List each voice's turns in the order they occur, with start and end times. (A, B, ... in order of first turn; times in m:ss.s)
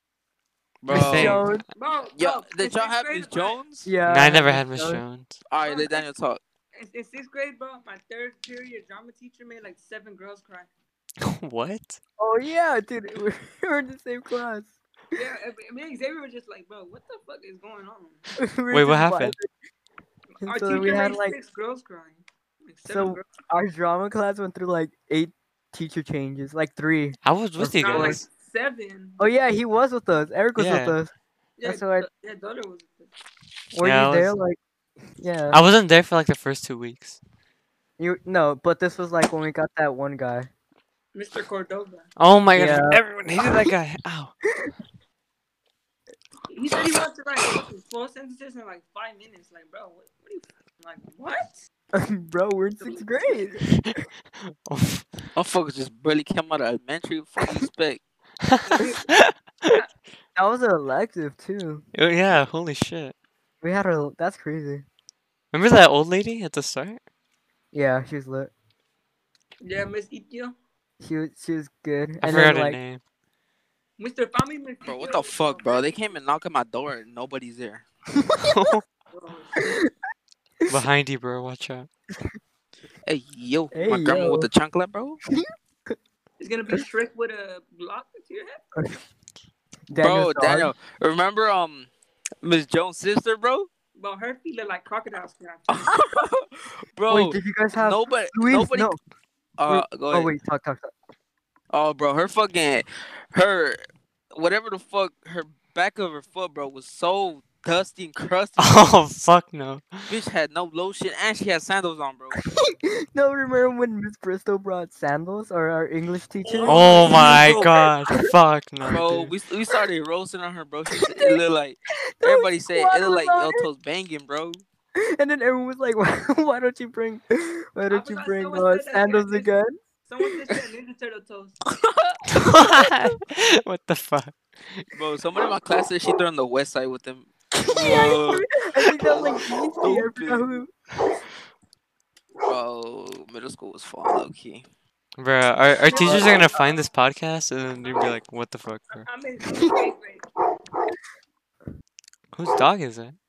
0:00.8-0:01.4 A
0:00.9-0:01.5 B
0:00.9-0:01.6 C
0:01.7-0:03.6 D
0:02.1-0:03.9 A
0:03.8-0:05.0 C
0:04.0-0:05.4 B
0:05.5-0:06.4 A
0:05.6-0:06.1 D
0:06.7-0:10.7 D
0:11.2-0:12.0 B
0:12.2-0:14.8 C
0:15.1-0:18.3 D
0:18.4-0:19.5 C
0:18.7-0:19.3 B
0:20.4-0:23.3 D
0:20.4-0:21.4 C
0:22.9-0:28.2 C
0:27.2-0:28.2 B
0:27.8-0:29.2 D
0:29.2-0:31.1 C
0:30.6-0:31.0 B
0:31.6-0:33.1 D
0:31.6-0:32.1 C
0:33.7-0:34.6 C
0:33.8-0:34.3 B
0:35.2-0:35.6 C
0:35.5-0:37.2 B
0:38.0-0:40.5 C
0:41.1-0:42.1 D
0:42.2-0:44.3 B
0:42.5-0:43.7 C
0:46.5-0:51.6 D
0:51.9-0:54.0 C
0:52.8-0:53.4 D
0:54.4-0:55.2 B
0:55.3-0:58.0 A
0:58.4-0:59.8 B
0:58.7-0:59.1 D
1:00.3-1:01.8 C
1:01.9-1:03.1 B
1:03.6-1:04.8 C
1:05.5-1:07.0 B
1:07.7-1:08.5 C
1:09.6-1:10.5 D
1:11.0-1:12.8 C
1:12.2-1:13.0 B
1:14.0-1:16.1 D
1:14.8-1:17.8 A
1:18.2-1:18.6 C
1:18.4-1:18.8 B
1:19.1-1:19.8 D
1:20.7-1:21.9 B
1:23.0-1:25.2 A
1:23.7-1:24.5 C
1:25.3-1:26.0 C
1:26.4-1:28.6 D
1:29.9-1:30.7 C
1:30.0-1:31.9 A
1:32.4-1:33.7 A
1:33.9-1:35.8 D
1:35.7-1:38.9 A
1:37.1-1:39.0 C
1:39.6-1:40.3 A
1:39.7-1:40.9 C
1:41.7-1:43.8 A
1:44.3-1:48.9 A
1:48.6-1:50.1 B
1:50.1-1:52.4 A
1:52.4-1:58.2 C
1:56.5-1:57.7 D
1:56.6-1:59.3 B
1:57.2-1:57.6 A
1:58.8-2:04.6 A
2:01.0-2:01.4 C
2:02.0-2:03.7 C
2:05.0-2:09.8 C
2:07.9-2:09.5 D
2:10.0-2:11.6 D
2:11.8-2:12.4 A
2:12.3-2:14.9 B
2:14.9-2:20.6 A
2:17.5-2:20.7 C
2:22.4-2:24.6 A
2:25.2-2:29.1 B
2:25.9-2:26.8 D
2:25.9-2:26.3 C
2:27.8-2:28.2 D
2:28.9-2:30.2 D
2:29.5-2:29.8 C
2:32.3-2:33.2 B